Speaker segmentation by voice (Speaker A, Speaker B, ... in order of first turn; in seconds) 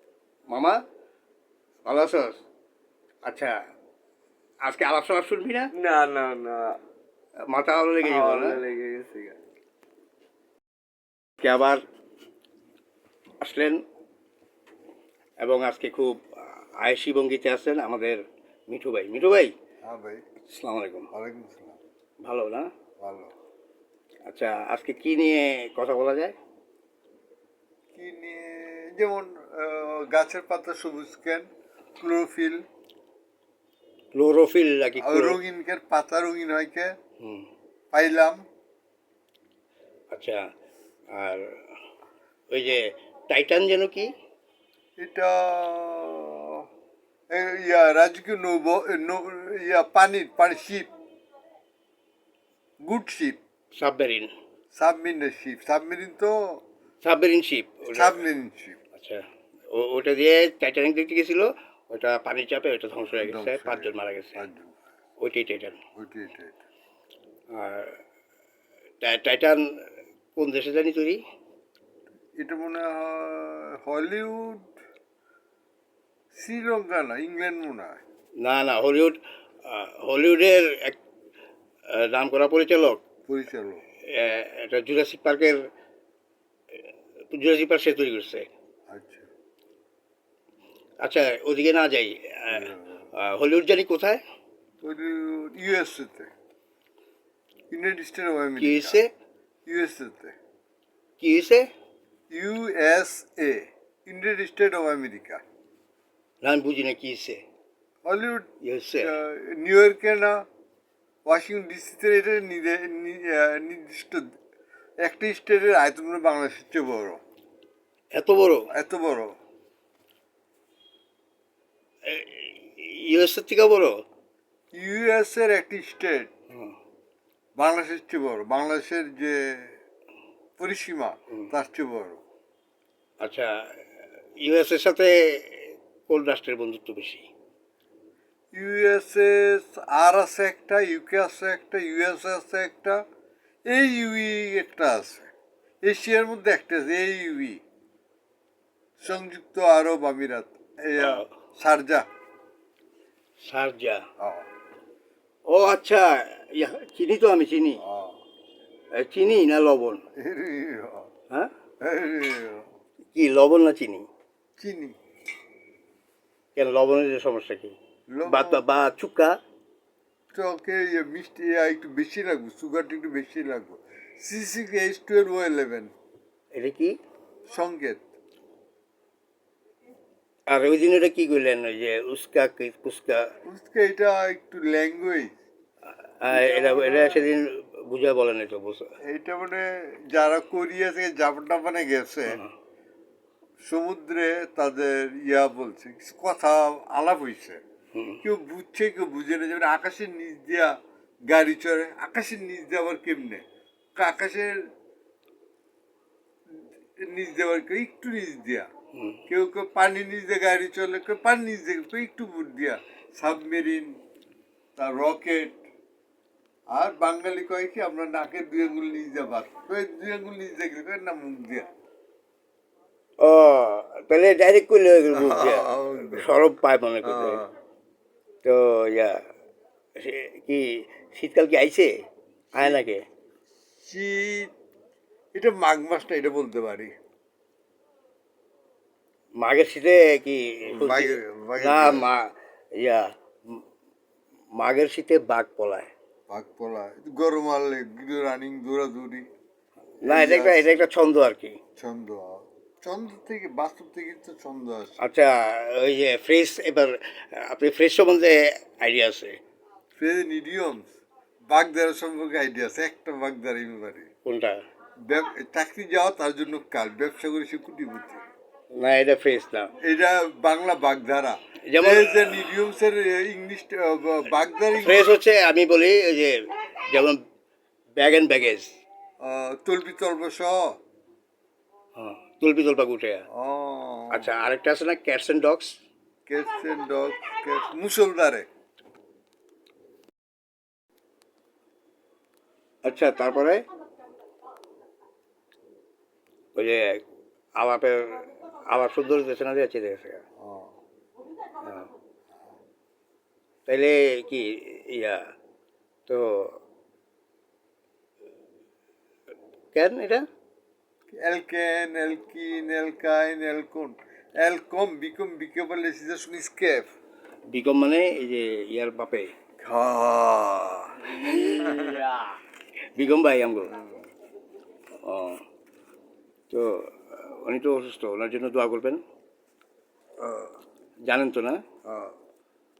Speaker A: 0.5-0.8, 1.9-2.4, 3.2-3.5, 4.7-5.7, 7.5-8.6, 11.4-11.8, 13.4-13.8, 15.4-19.5, 20.4-21.1, 22.2-22.7, 24.3-26.3, 34.1-35.4, 37.2-37.5, 40.1-40.4, 41.1-41.5, 42.5-44.1, 53.8-54.3, 57.0-58.2, 58.9-59.2, 59.7-64.4, 65.2-65.8, 67.5-68.0, 69.0-69.8, 70.3-71.2, 78.4-81.0, 81.9-83.0, 84.0-85.6, 87.3-88.5, 91.0-94.2, 98.6-99.1, 101.2-101.7, 106.4-107.4, 108.6-109.1, 118.2-118.7, 122.0-123.9, 133.2-133.5, 134.4-137.3, 151.0-151.3, 153.4-154.0, 155.5-157.8, 158.9-160.0, 163.1-164.1, 166.5-169.4, 176.5-177.0, 180.5-183.3, 186.2-188.9, 197.9-198.2, 208.9-209.2, 223.2-227.4, 228.4-229.2, 230.0-231.9, 232.5-233.0, 239.4-243.6, 244.6-245.9, 250.0-251.6, 255.0-259.4, 264.2-264.6, 268.7-269.7, 271.7-272.5, 274.7-276.3, 276.8-277.2, 278.0-278.7, 281.9-283.2, 284.1-285.8, 292.8-293.6, 296.6-297.0, 297.6-300.2, 301.6-301.9, 303.7-305.3, 306.1-306.6, 309.7-310.2, 317.5-319.3, 321.3-322.0, 322.9-323.7, 325.0-325.4, 326.5-329.0, 331.1-331.6
Speaker B: 5.7-6.8, 8.0-9.4
Speaker C: 19.8-20.2, 21.1-21.8, 23.0-23.3, 27.9-31.5, 32.0-32.6, 35.0-36.9, 37.9-38.4, 45.0-46.6, 47.3-50.9, 52.9-53.4, 54.8-56.6, 57.9-58.8, 63.2-64.7, 66.0-66.5, 72.4-74.7, 76.3-78.0, 83.3-83.8, 88.9-89.3, 92.5-92.9, 94.8-96.3, 97.7-99.0, 99.7-100.3, 102.3-105.4, 108.0-110.4, 111.3-114.2, 115.0-117.2, 118.7-119.3, 124.7-126.3, 127.6-129.8, 130.6-132.2, 138.5-143.0, 143.7-145.3, 145.8-147.6, 149.0-152.1, 154.2-154.5, 157.8-158.2, 160.2-161.1, 161.8-162.7, 164.6-164.9, 168.1-168.6, 170.3-175.9, 177.5-178.0, 183.4-185.3, 186.2-187.2, 189.1-192.4, 193.7-197.6, 198.2-200.7, 201.3-203.4, 204.0-204.6, 207.0-208.7, 209.3-214.0, 214.8-215.6, 216.7-221.7, 225.1-226.3, 227.1-227.5, 232.6-232.8, 233.8-234.5, 235.3-236.9, 240.7-242.1, 246.3-249.2, 250.0-250.7, 251.8-255.1, 259.9-260.9, 261.5-264.1, 265.1-268.2, 269.8-275.1, 279.2-280.8, 283.3-284.3, 286.3-288.5, 300.4-300.7, 311.2-316.9, 319.6-321.6, 330.2-330.5, 331.9-332.1